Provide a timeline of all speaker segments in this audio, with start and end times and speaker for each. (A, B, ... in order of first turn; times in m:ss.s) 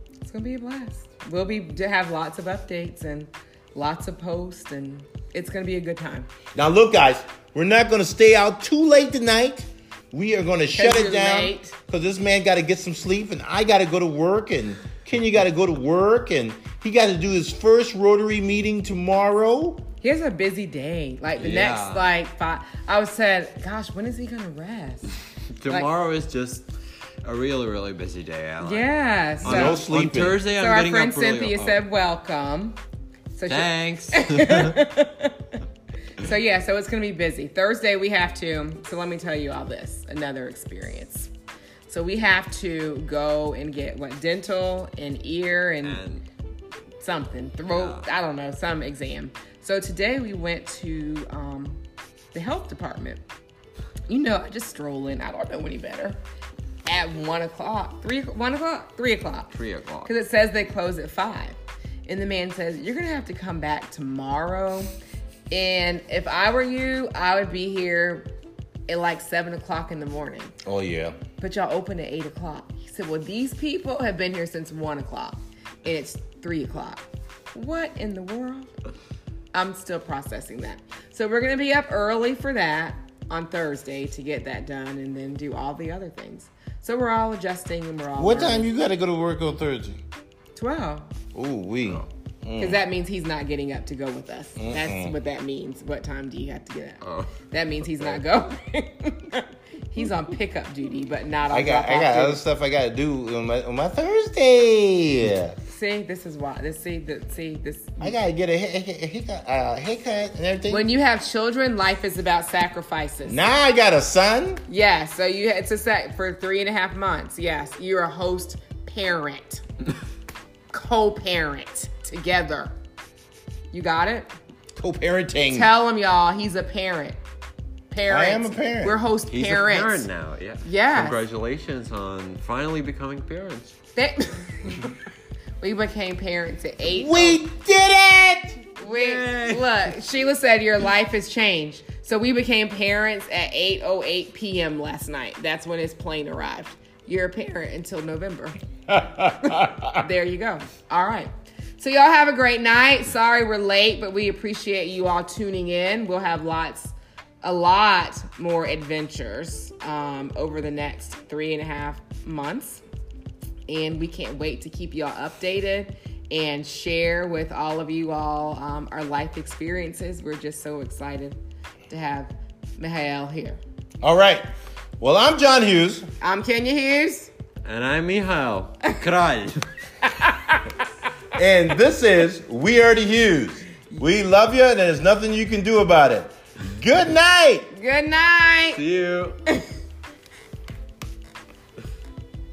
0:00.2-0:06.3 A
0:06.5-0:19.8 B
0:10.7-0:11.7 A
0:20.0-0:25.9 A
0:21.4-0:22.1 C
0:25.6-0:26.7 C
0:27.2-0:31.8 C
0:28.6-0:32.8 A
0:29.4-0:30.4 B
0:33.3-0:35.5 A
0:33.5-0:34.8 C
0:36.2-0:41.3 A
0:41.9-0:46.0 A
0:45.8-0:46.2 C
0:47.0-0:51.8 A
0:47.6-0:48.1 C
0:52.3-0:53.2 A
0:54.1-0:56.2 A
0:56.8-0:59.5 A
0:59.5-1:00.1 C
1:00.0-1:04.9 A
1:05.5-1:08.3 A
1:08.9-1:10.5 A
1:10.6-1:11.2 B
1:11.4-1:18.7 A
1:19.5-1:28.7 A
1:28.2-1:30.0 B
1:30.5-1:31.1 A
1:31.3-1:32.8 B
1:32.6-1:42.4 A
1:34.6-1:35.1 B
1:37.0-1:37.4 C
1:41.5-1:45.6 B
1:45.6-1:48.2 A
1:48.0-1:50.8 B
1:50.7-1:53.4 A
1:53.2-1:54.6 B
1:54.7-1:59.6 A
2:00.7-2:02.7 A
2:03.7-2:04.3 A
2:04.8-2:05.7 B
2:05.5-2:07.2 A
2:07.9-2:10.1 A
2:08.1-2:09.0 B
2:09.3-2:13.7 C
2:10.6-2:11.2 A
2:13.9-2:14.9 A
2:15.6-2:17.4 A
2:16.8-2:18.7 B
2:18.8-2:28.6 A
2:18.8-2:19.9 C
2:28.9-2:29.9 B
2:29.4-2:42.8 A
2:43.7-2:51.4 A
2:51.9-2:53.6 A
2:54.0-2:54.4 B
2:55.0-2:56.0 B
2:56.2-2:57.3 A
2:57.6-2:59.6 C
3:00.0-3:00.6 A
3:01.3-3:07.7 B
3:07.7-3:08.8 A
3:08.7-3:09.4 C